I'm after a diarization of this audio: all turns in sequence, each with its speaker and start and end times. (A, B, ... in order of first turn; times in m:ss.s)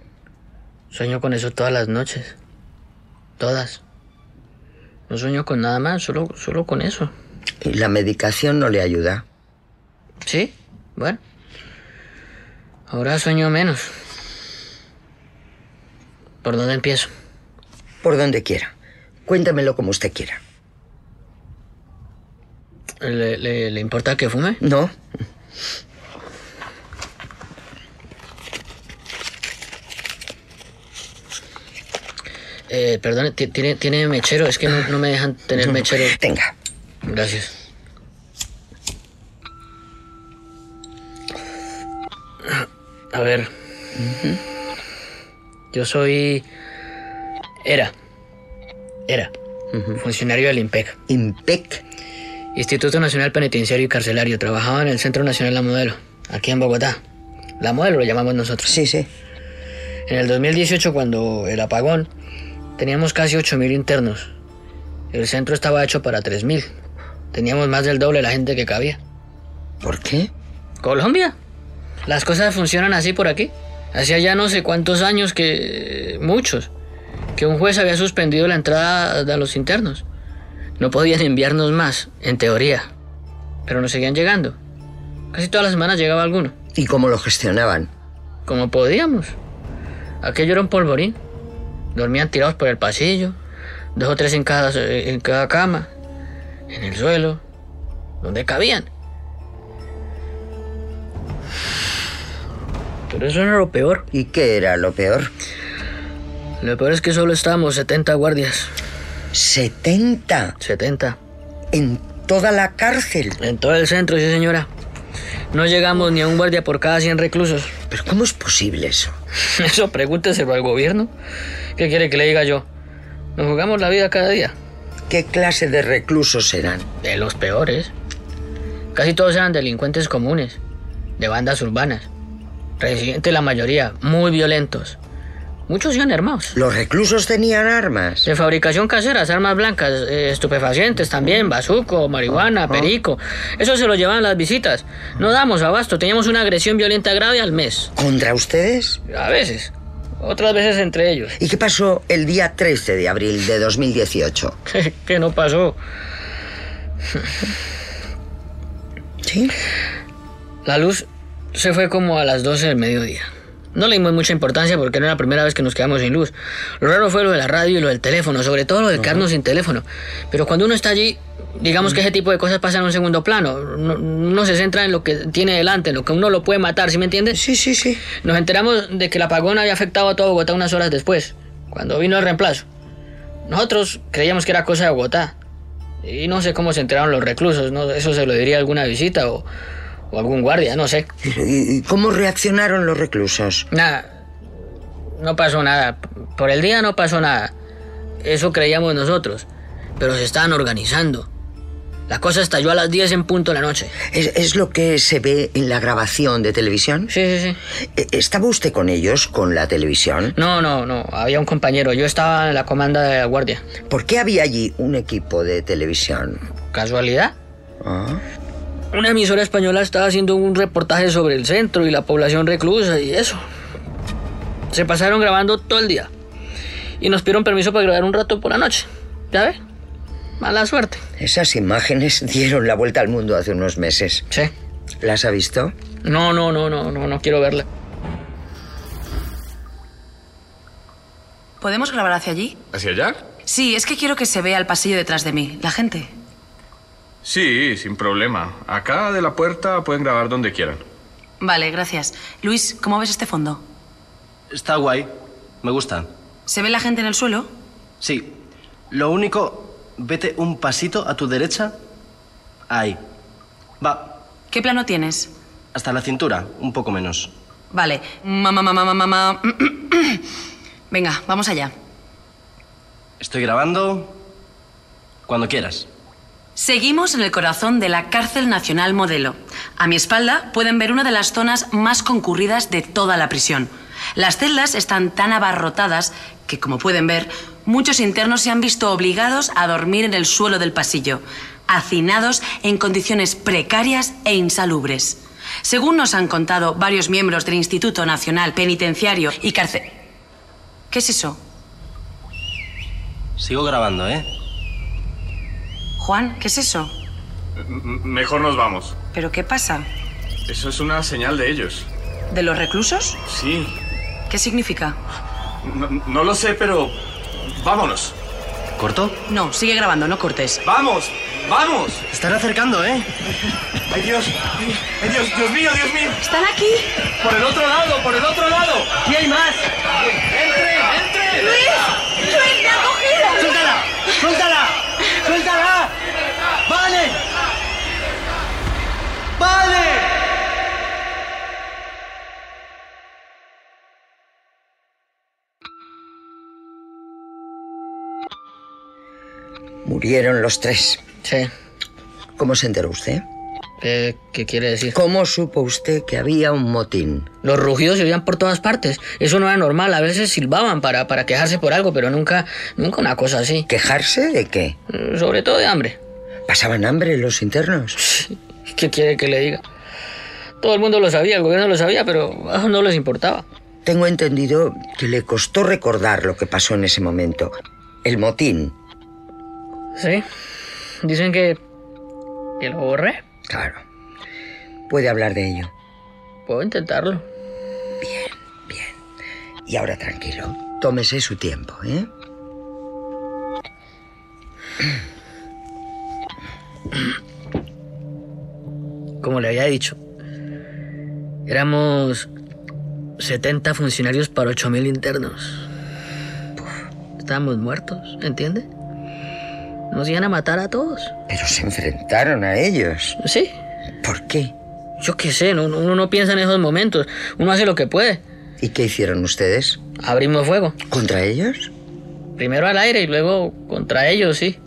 0:00.9-0:02.3 A
0:03.4-0:03.8 A
0:05.1-0:07.1 A
0:07.6-0:09.2 B
0:10.2-0:11.2 A
0:12.9-0:13.9 A
0:16.4-0:17.1 A
0:18.0-0:18.7 B
0:19.3-0:20.4 B
0:23.0-0:24.6 A
0:24.6-0:24.9 B
0:32.7-0:36.1 A
0:35.6-0:36.5 B
0:37.0-0:37.5 A
0:43.1-0:43.5 A
0:44.0-0:44.4 B
0:45.7-0:46.4 A
0:47.6-0:47.9 A
0:50.0-0:51.0 A
0:51.1-0:51.8 B
0:52.5-0:57.0 A
0:57.6-0:58.8 A
0:58.6-0:59.1 B
1:00.1-1:02.1 A
1:02.8-1:04.3 A
1:05.1-1:06.7 A
1:07.3-1:09.0 A
1:09.8-1:10.3 B
1:10.8-1:11.3 A
1:12.0-1:16.7 A
1:17.4-1:20.0 A
1:20.8-1:22.9 A
1:23.6-1:24.6 A
1:25.3-1:26.5 A
1:26.8-1:27.9 B
1:28.4-1:29.3 A
1:30.2-1:31.2 A
1:31.9-1:33.4 A
1:33.9-1:35.9 A
1:36.7-1:37.4 A
1:38.2-1:38.9 A
1:43.1-1:44.0 A
1:44.1-1:45.3 B
1:46.6-1:48.7 A
1:49.3-1:50.6 B
1:50.6-1:51.2 A
1:51.7-1:53.4 B
1:53.4-1:54.7 A
1:55.5-1:57.7 A
1:57.9-1:59.1 B
1:59.4-2:01.1 A
2:01.8-2:02.7 A
2:03.4-2:04.5 A
2:05.1-2:06.9 B
2:07.0-2:07.9 A
2:08.9-2:10.6 A
2:11.2-2:12.1 A
2:12.8-2:15.0 A
2:15.7-2:16.5 A
2:16.5-2:18.3 B
2:18.2-2:27.9 A
2:22.7-2:22.9 B
2:28.0-2:29.0 B
2:29.1-2:31.3 A
2:31.4-2:34.6 B
2:34.7-2:35.8 A
2:39.2-2:39.5 B
2:40.6-2:57.4 A
2:57.3-2:58.0 B
2:58.2-3:02.6 A
3:03.4-3:05.3 A
3:06.0-3:09.5 A
3:10.1-3:11.1 A
3:11.2-3:13.7 B
3:13.7-3:14.1 A
3:15.2-3:17.5 A
3:18.2-3:19.5 A
3:20.0-3:21.3 A
3:22.1-3:23.9 A
3:24.1-3:27.1 B
3:27.1-3:27.6 A
3:27.9-3:30.4 B
3:30.3-3:33.6 A
3:33.9-3:36.4 B
3:36.7-3:37.3 A
3:37.8-3:38.2 B
3:38.9-3:43.4 A
3:44.7-3:46.1 A
3:47.0-3:49.6 A
3:50.4-3:51.0 A
3:51.2-3:54.2 B
3:55.0-3:55.7 B
3:56.0-3:57.6 A
4:01.6-4:02.6 C
4:03.4-4:06.1 C
4:07.3-4:10.8 D
4:11.4-4:13.6 C
4:14.5-4:15.1 E
4:15.6-4:16.1 E
4:16.5-4:17.5 C
4:18.0-4:18.3 E
4:18.9-4:21.8 E
4:22.7-4:23.0 E
4:23.8-4:24.1 E
4:24.5-4:25.3 C
4:25.7-4:27.3 E
4:27.7-4:30.2 C
4:30.9-4:31.7 C
4:33.2-4:34.2 E
4:35.3-4:35.9 E
4:36.6-4:59.9 C
5:00.9-5:01.4 C
5:03.4-5:04.2 E
5:06.0-5:06.9 C
5:07.9-5:08.8 D
5:09.1-5:09.9 C
5:10.6-5:11.7 D
5:12.3-5:13.2 C
5:14.3-5:15.0 C
5:15.9-5:16.9 D
5:18.8-5:19.1 E
5:19.3-5:20.6 C
5:22.1-5:23.1 E
5:26.2-5:26.9 C
5:29.0-5:29.6 E
5:31.4-5:33.6 C
5:33.5-5:34.6 E
5:35.3-5:35.9 E
5:36.7-5:37.1 E
5:39.4-5:39.8 E
5:49.8-5:51.0 B
5:51.2-5:51.5 A
5:52.4-5:53.2 B
5:53.8-5:55.0 A
5:54.9-5:57.3 B
5:57.4-6:03.7 A
6:03.7-6:04.8 B
6:04.9-6:06.0 A
6:06.5-6:08.0 B
6:08.0-6:09.6 A
6:10.6-6:13.4 A
6:13.8-6:18.7 B
6:20.0-6:20.2 A
6:21.0-6:21.6 A
6:22.6-6:23.2 A
6:23.5-6:23.8 B
6:24.9-6:25.7 B
6:26.4-6:27.2 A
6:28.0-6:28.9 B
6:29.6-6:32.1 B
6:39.2-6:40.0 A
6:41.4-6:42.3 A
6:43.2-6:45.6 A
6:47.2-6:48.7 A
6:49.9-6:51.1 A
6:51.3-6:53.2 B
6:53.2-6:53.5 A
6:54.0-6:54.5 B
6:55.0-6:58.2 A
6:58.6-6:59.8 B
7:00.0-7:00.8 A
7:00.9-7:01.7 B
7:02.4-7:04.6 A